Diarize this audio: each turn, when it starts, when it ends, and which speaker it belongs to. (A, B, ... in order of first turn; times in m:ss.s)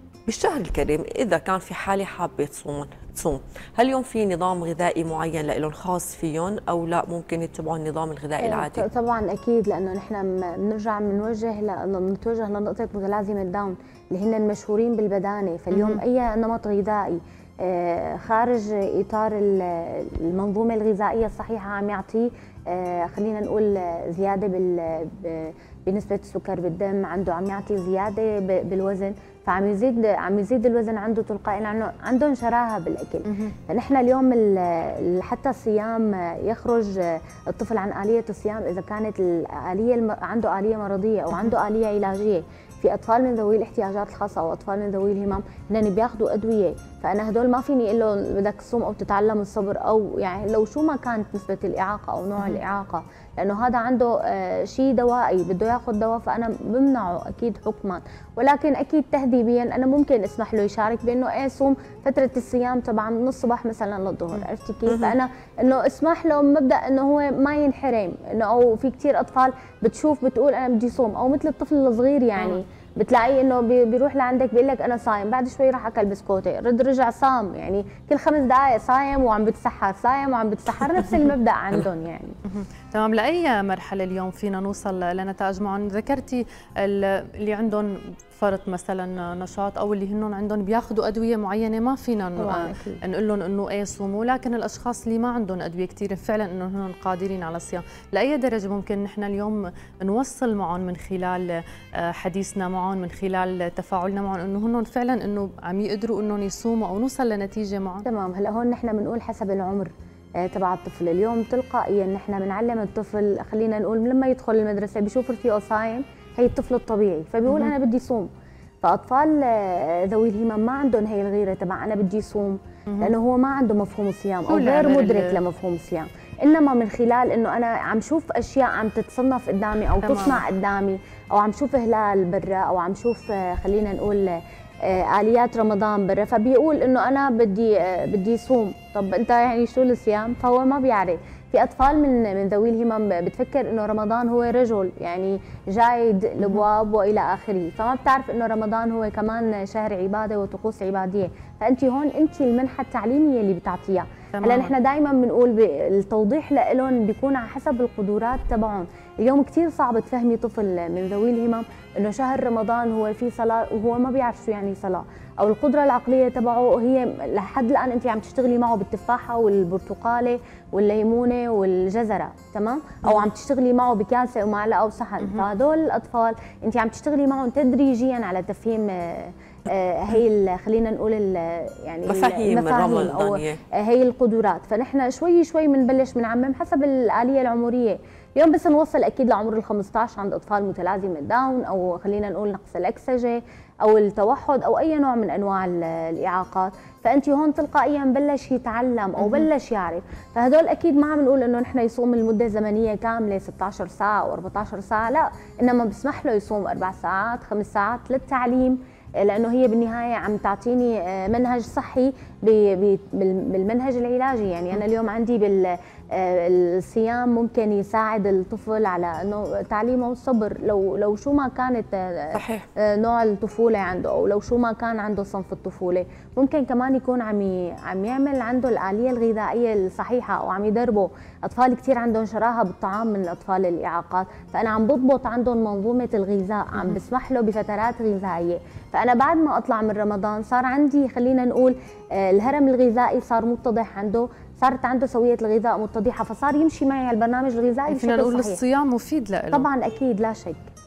0:00.3-0:08.8 A
0:08.4-1:22.4 B
0:15.7-0:16.0 C
0:33.2-0:33.5 C
1:04.9-1:05.1 A
1:22.5-1:48.0 C
1:32.4-1:33.0 B
1:48.0-1:58.3 B
1:57.4-1:57.7 C
1:58.8-4:08.6 B
2:04.5-2:05.4 C
2:10.0-2:10.4 C
2:34.3-2:34.7 C
2:55.2-2:55.5 C
3:02.0-3:03.6 A
3:42.3-3:42.7 A
4:07.9-4:09.7 C
4:09.5-4:10.6 B